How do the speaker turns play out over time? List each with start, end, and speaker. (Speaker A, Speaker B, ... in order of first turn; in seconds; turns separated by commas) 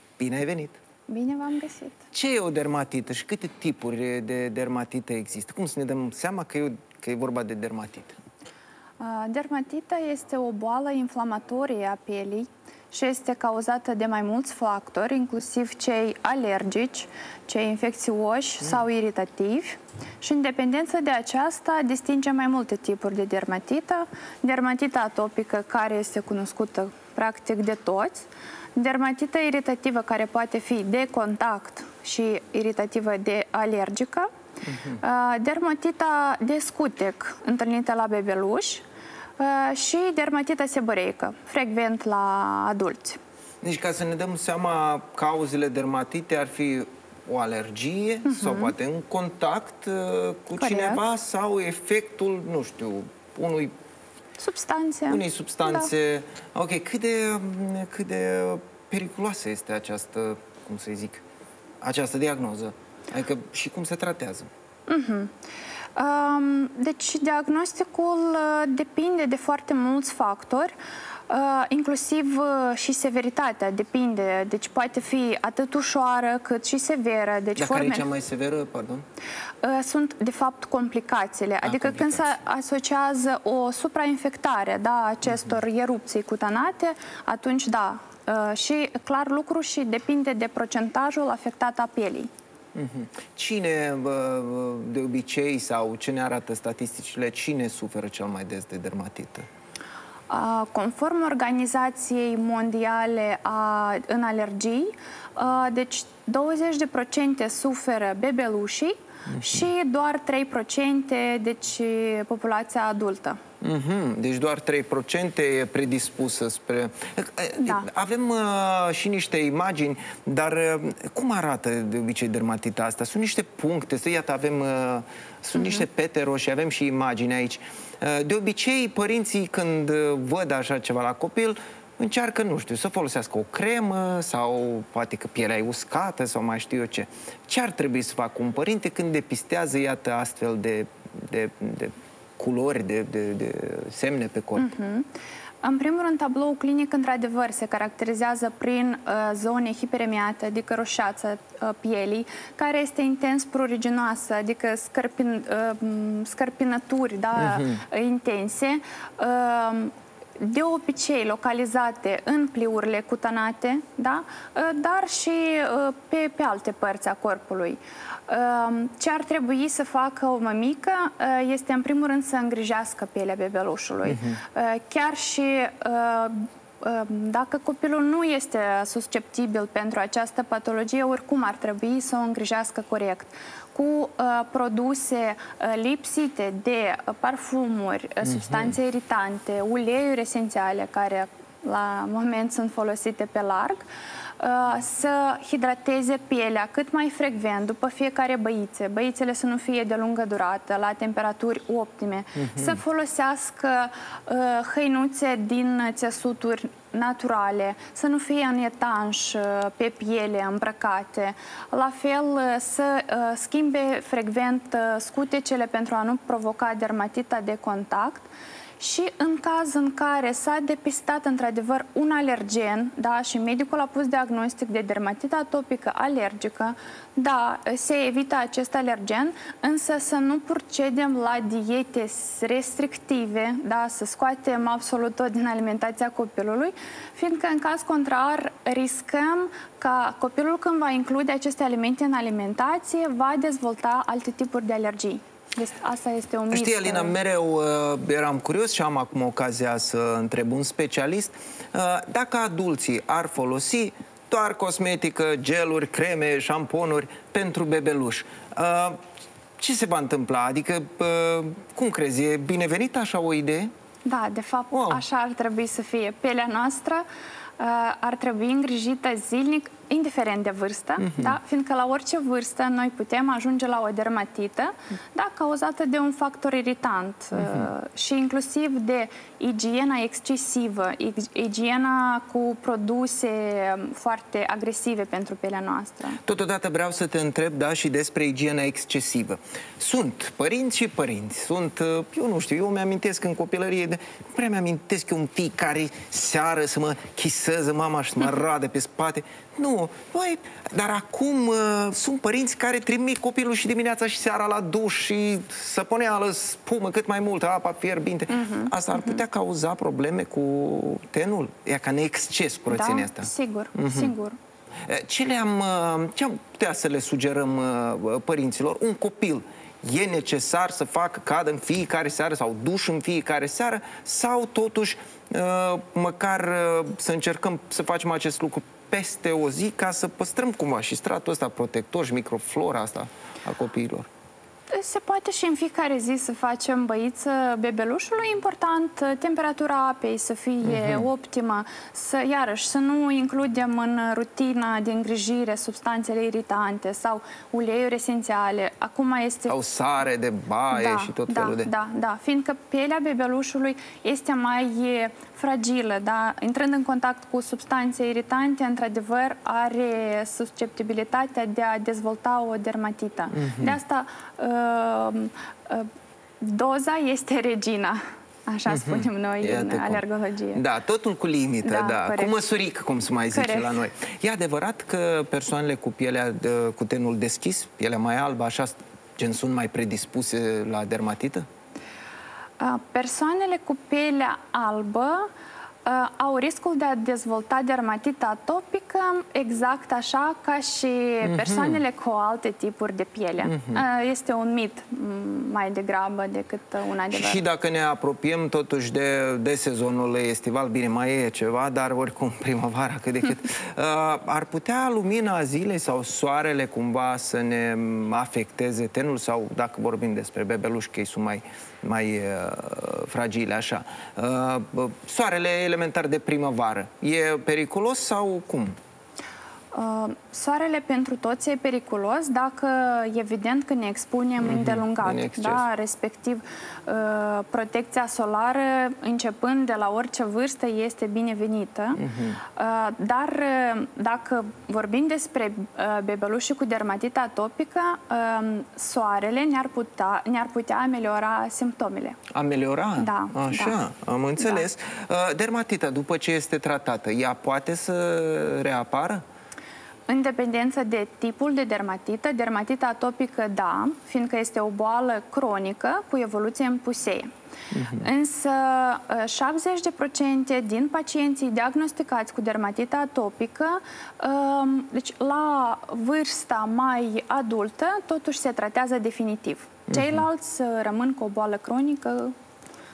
Speaker A: 0.2-0.8, Speaker B: 1.1-2.0, Speaker A: 2.1-8.2, Speaker B: 9.0-34.3, Speaker A: 34.6-35.0, Speaker B: 35.0-38.8, Speaker B: 39.4-43.2, Speaker A: 43.6-53.7, Speaker B: 48.2-48.7, Speaker B: 50.6-51.0, Speaker B: 54.4-55.9, Speaker A: 55.1-61.2, Speaker A: 61.8-64.5, Speaker B: 64.9-65.3, Speaker B: 66.0-70.7, Speaker B: 71.3-78.1, Speaker A: 77.6-79.0, Speaker B: 79.6-92.3, Speaker A: 81.6-82.3, Speaker A: 92.8-99.5, Speaker B: 100.3-113.4, Speaker A: 113.6-144.7, Speaker B: 117.6-117.9, Speaker B: 125.6-125.8, Speaker B: 144.6-145.1, Speaker B: 145.6-193.9, Speaker A: 157.4-157.8, Speaker A: 174.1-174.4, Speaker A: 188.2-188.7, Speaker B: 194.4-247.1, Speaker A: 246.5-259.0, Speaker A: 259.6-263.7, Speaker B: 264.1-267.1, Speaker A: 264.7-265.0, Speaker B: 267.6-286.2, Speaker A: 271.0-271.3, Speaker A: 277.4-277.7, Speaker A: 286.2-314.1, Speaker B: 308.3-309.2, Speaker B: 312.7-314.4, Speaker A: 314.9-334.1, Speaker B: 334.7-349.5, Speaker A: 340.7-341.0, Speaker A: 349.5-351.7, Speaker B: 350.7-365.9, Speaker A: 363.3-363.7, Speaker B: 366.4-370.6, Speaker A: 368.7-370.0, Speaker A: 370.6-381.5, Speaker B: 371.6-372.4, Speaker B: 373.3-373.8, Speaker B: 382.6-385.3, Speaker B: 385.9-397.4, Speaker A: 391.2-391.8, Speaker A: 393.4-393.8, Speaker A: 397.1-418.8, Speaker B: 419.7-442.2, Speaker A: 424.4-425.6, Speaker A: 432.0-432.4, Speaker A: 442.3-449.2, Speaker B: 443.0-443.8, Speaker B: 444.4-444.6, Speaker B: 450.1-457.3, Speaker A: 457.7-458.1, Speaker B: 458.0-472.3, Speaker A: 469.9-470.2